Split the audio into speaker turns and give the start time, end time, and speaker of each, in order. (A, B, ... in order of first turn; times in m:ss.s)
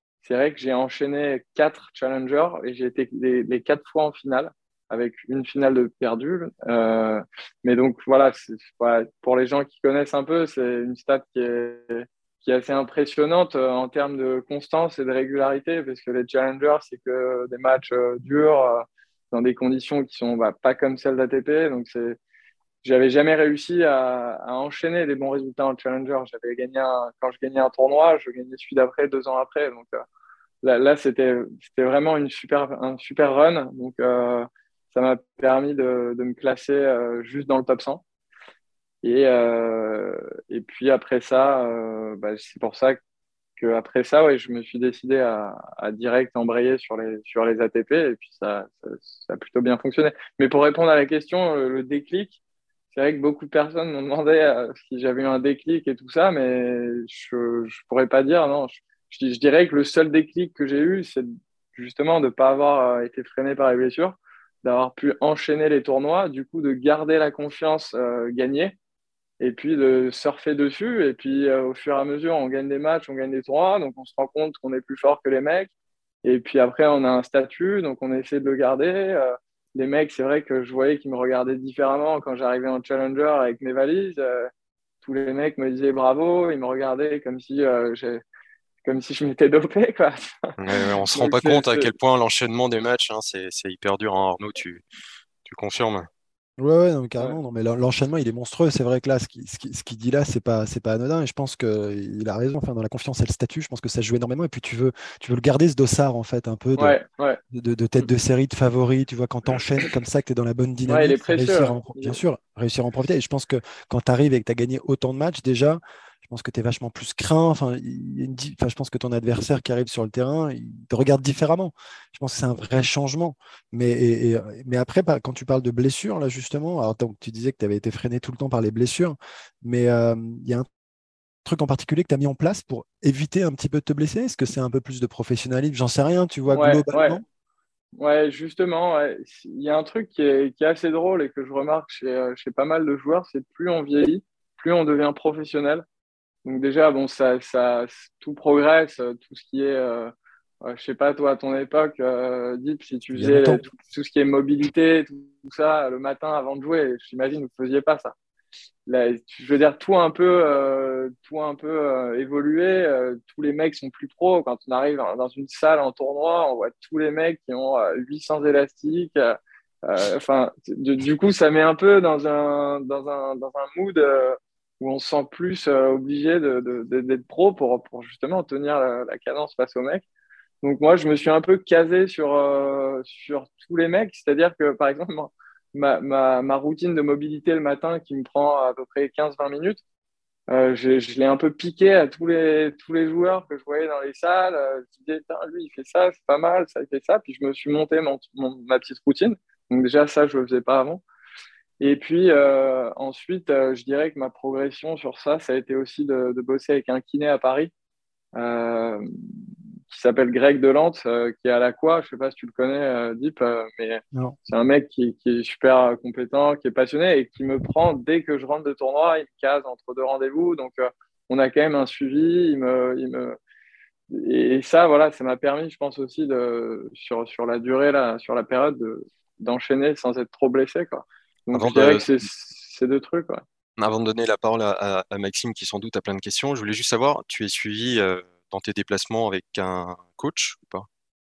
0:00.2-0:22.2 A
0:22.8-0:30.0 A
0:30.6-0:38.0 A
0:39.0-0:43.0 A
0:43.6-0:52.4 A
0:52.9-1:08.8 A
1:09.4-1:15.7 A
1:16.2-1:24.5 A
1:25.0-1:28.2 A
1:28.8-1:31.9 A
1:30.6-1:34.8 B
1:35.4-1:36.1 B
1:36.6-1:47.0 C
1:46.8-1:47.4 A
1:47.5-2:10.7 C
1:50.9-1:52.2 A
2:11.4-2:17.2 C
2:16.5-2:17.2 A
2:18.0-2:25.8 A
2:26.4-2:30.1 A
2:30.6-2:38.2 A
2:33.1-2:33.6 C
2:38.9-3:00.0 A
3:00.6-3:09.8 A
3:10.5-3:21.0 A
3:21.8-3:27.7 A
3:28.4-3:29.0 A
3:29.9-3:43.4 A
3:44.1-3:53.4 A
3:51.5-3:52.1 B
3:53.8-4:00.9 B